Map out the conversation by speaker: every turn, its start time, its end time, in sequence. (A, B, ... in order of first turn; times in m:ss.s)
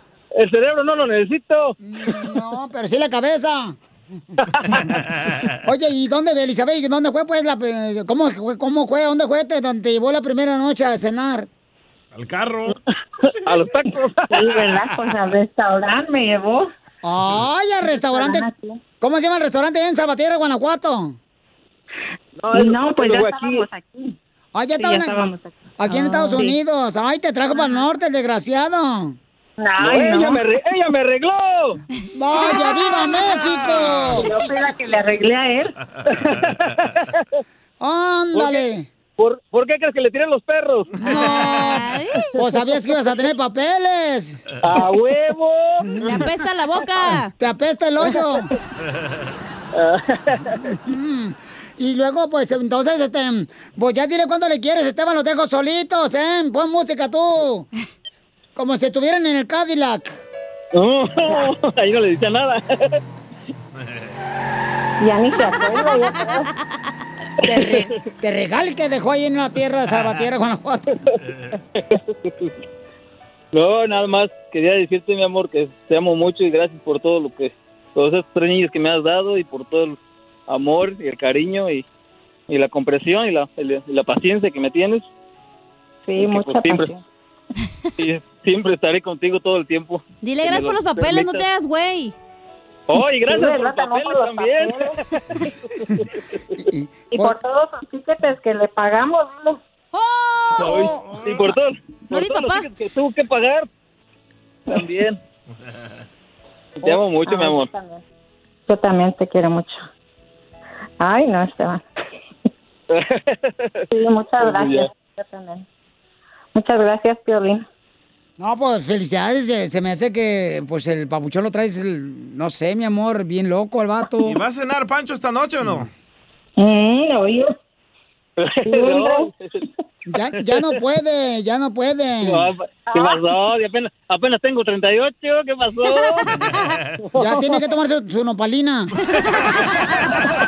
0:00.4-0:01.7 A
0:01.8-0:03.8 B
0:05.6-0:11.5 B
0:12.1-0:12.8 C
0:13.4-0:14.5 A
0:14.3-0:16.7 D
0:17.0-0:18.4 B
0:17.8-0:18.8 D
0:19.0-0:21.2 B
0:22.4-0:23.6 A
0:22.5-0:24.2 D
0:24.5-0:25.2 B
0:24.8-0:26.5 D
0:25.8-0:29.2 B
0:29.6-0:30.4 D
0:29.8-0:31.8 A
0:32.1-0:34.3 B
0:34.1-0:35.7 D
0:36.2-0:37.2 A
0:37.8-0:38.9 B
0:38.3-0:38.6 A
0:39.2-0:40.9 A
0:41.0-0:44.4 B
0:41.1-0:42.3 E
0:44.6-0:45.8 A
0:45.9-0:46.2 B
0:46.0-0:47.3 E
0:47.3-0:48.5 B
0:49.7-0:50.6 A
0:50.6-0:57.7 B
0:58.5-1:00.1 B
1:00.7-1:03.0 A
1:05.0-1:06.5 D
1:07.4-1:10.9 B
1:11.8-1:12.5 A
1:13.5-1:20.0 A
1:20.5-1:21.8 A
1:22.5-1:25.0 A
1:26.0-1:27.0 D
1:26.2-1:26.9 A
1:28.0-1:31.4 A
1:30.2-1:32.1 E
1:32.9-1:35.4 A
1:33.3-1:35.0 D
1:36.6-1:37.4 B
1:37.1-1:39.6 D
1:39.9-1:40.8 E
1:40.6-1:41.0 B
1:40.6-1:43.7 A
1:41.0-1:41.4 C
1:42.1-1:42.6 E
1:44.7-1:45.2 A
1:46.8-1:47.7 A
1:47.2-1:48.0 D
1:48.7-1:49.8 D
1:51.0-1:51.8 D
1:52.9-1:53.5 A
1:53.9-1:55.6 D
1:54.4-1:54.9 A
1:56.5-1:57.6 D
1:58.4-2:04.4 B
2:04.2-2:05.9 C
2:06.6-2:07.5 D
2:08.4-2:09.6 A
2:08.6-2:09.3 D
2:10.1-2:12.5 B
2:12.2-2:16.2 A
2:12.9-2:13.2 D
2:17.1-2:17.6 A
2:17.2-2:18.9 B